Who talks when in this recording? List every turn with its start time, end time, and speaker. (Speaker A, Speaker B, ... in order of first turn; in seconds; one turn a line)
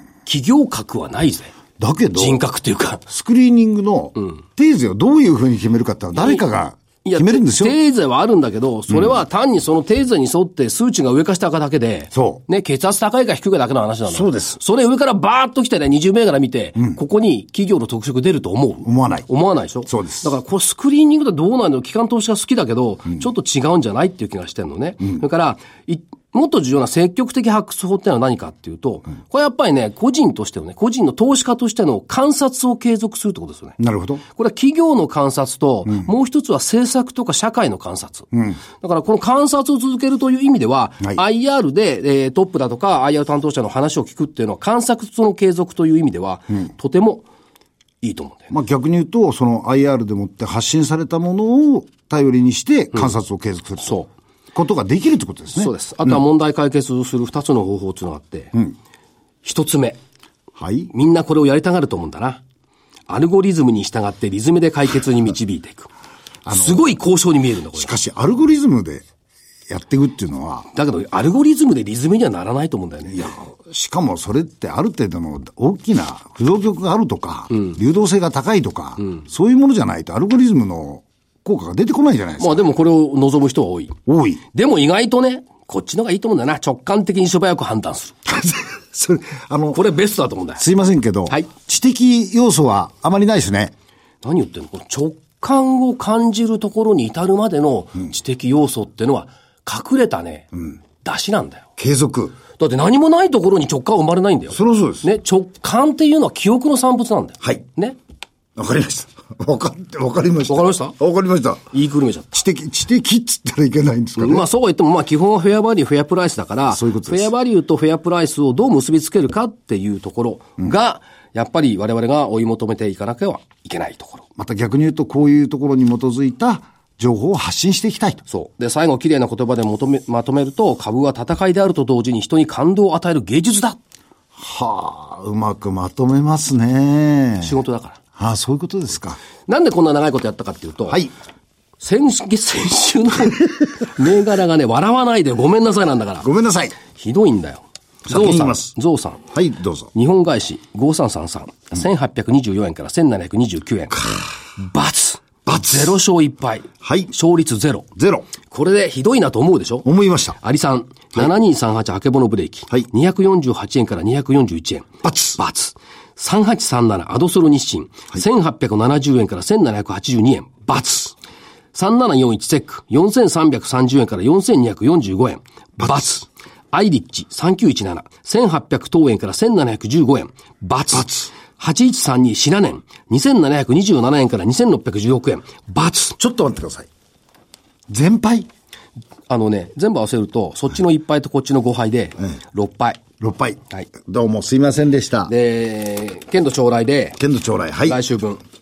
Speaker A: 0.3-1.5
Speaker B: 1.8-2.4
Speaker A: 2.1-3.0
Speaker B: 3.1-7.8
Speaker A: 6.2-6.5
Speaker A: 7.0-33.8
Speaker B: 8.9-9.2
Speaker B: 12.1-12.4
Speaker B: 14.1-14.6
Speaker B: 18.8-19.3
Speaker B: 19.9-20.3
Speaker B: 33.8-34.2
Speaker A: 34.3-47.3
Speaker B: 38.3-38.6
Speaker A: 48.0-48.5
Speaker B: 48.5-56.2
Speaker A: 53.8-54.1
Speaker A: 55.6-58.5
Speaker A: 59.4-60.0
Speaker B: 60.6-60.9
Speaker A: 60.9-62.4
Speaker A: 63.1-65.9
Speaker B: 66.5-66.9
Speaker A: 66.5-67.9
Speaker B: 67.7-69.0
Speaker B: 69.7-70.7
Speaker A: 70.7-73.3
Speaker B: 73.1-82.7
Speaker A: 82.4-84.0
Speaker B: 84.1-84.4
Speaker A: 84.5-88.1
Speaker B: 88.2-89.8
Speaker A: 89.7-90.6
Speaker B: 90.6-93.7
Speaker A: 94.2-100.5
Speaker A: 101.0-101.7
Speaker B: 101.8-102.4
Speaker A: 102.6-108.0
Speaker B: 104.5-105.1
Speaker B: 108.6-111.7
Speaker A: 110.5-111.0
Speaker A: 111.7-112.3
Speaker B: 112.3-114.5
Speaker A: 114.2-124.2
Speaker B: 116.7-117.3
Speaker B: 124.4-128.2
Speaker A: 128.3-133.8
Speaker B: 134.4-137.5
Speaker A: 137.4-138.0
Speaker B: 138.2-139.2
Speaker A: 139.5-141.0
Speaker A: 141.8-146.3
Speaker B: 146.2-146.8
Speaker A: 146.9-149.2
Speaker B: 148.1-148.7
Speaker B: 149.3-149.9
Speaker A: 149.9-157.9
Speaker B: 154.0-154.3
Speaker B: 155.5-156.0
Speaker B: 156.8-157.1
Speaker B: 158.0-158.3
Speaker A: 158.4-159.9
Speaker B: 159.8-160.4
Speaker A: 160.4-171.2
Speaker B: 165.0-165.4
Speaker A: 171.7-186.2
Speaker B: 175.8-176.1
Speaker B: 180.9-181.3
Speaker B: 186.2-186.9
Speaker B: 187.9-188.5
Speaker A: 189.3-193.0
Speaker B: 193.2-195.3
Speaker A: 195.3-197.2
Speaker B: 197.2-198.0
Speaker A: 197.9-198.4